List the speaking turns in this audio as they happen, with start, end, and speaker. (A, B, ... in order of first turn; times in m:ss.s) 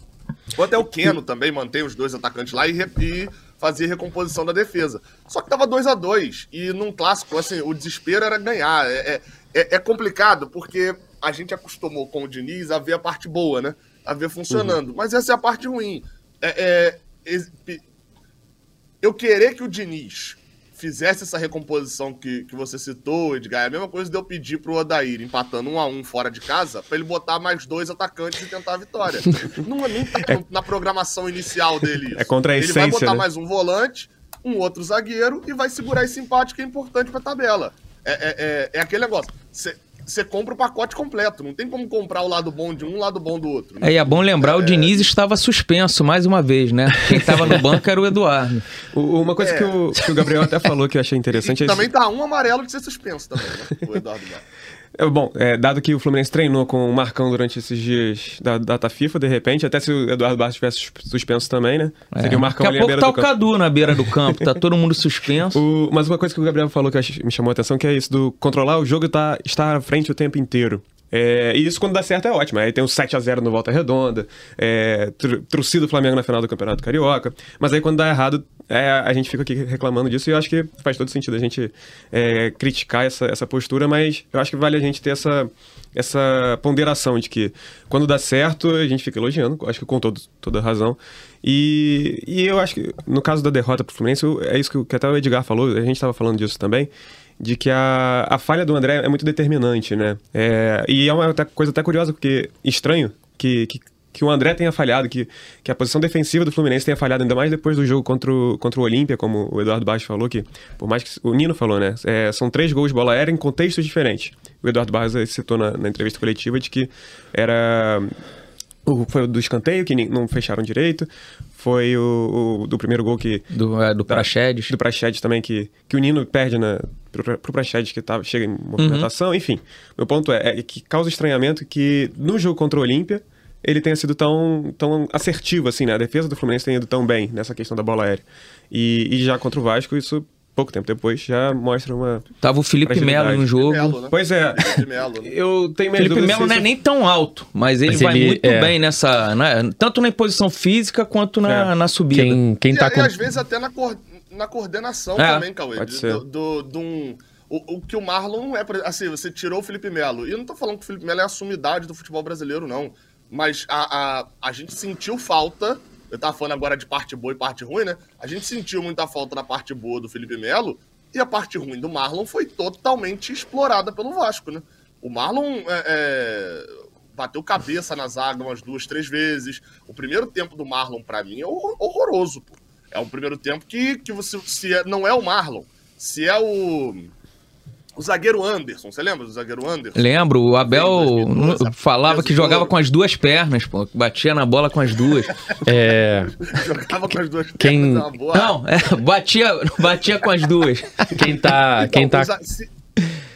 0:00.6-0:17.8 A
0:14.5-0:14.8 B
0:19.0-0:45.1 A
0:32.1-0:33.2 B
0:43.8-0:48.6 C
0:48.9-0:51.8 B
0:49.4-0:49.8 A
0:51.3-0:54.4 A
0:55.0-1:03.3 B
1:02.1-1:05.6 C
1:05.5-1:58.1 B
1:58.8-2:03.5 B
2:03.5-2:04.7 C
2:04.1-2:22.3 B
2:08.8-2:09.1 C
2:22.4-2:24.0 C
2:22.8-2:23.5 B
2:23.6-2:25.3 A
2:24.1-2:26.6 B
2:25.9-2:32.4 C
2:27.9-2:28.7 D
2:32.1-2:33.1 D
2:32.7-3:07.1 A
2:35.2-2:35.4 C
2:35.8-2:36.2 B
3:08.0-3:10.1 A
3:10.0-3:15.3 C
3:10.6-3:12.7 A
3:15.6-3:16.4 D
3:16.4-3:18.5 A
3:17.6-3:18.0 D
3:18.3-3:20.9 C
3:21.1-3:22.3 D
3:21.8-3:22.7 A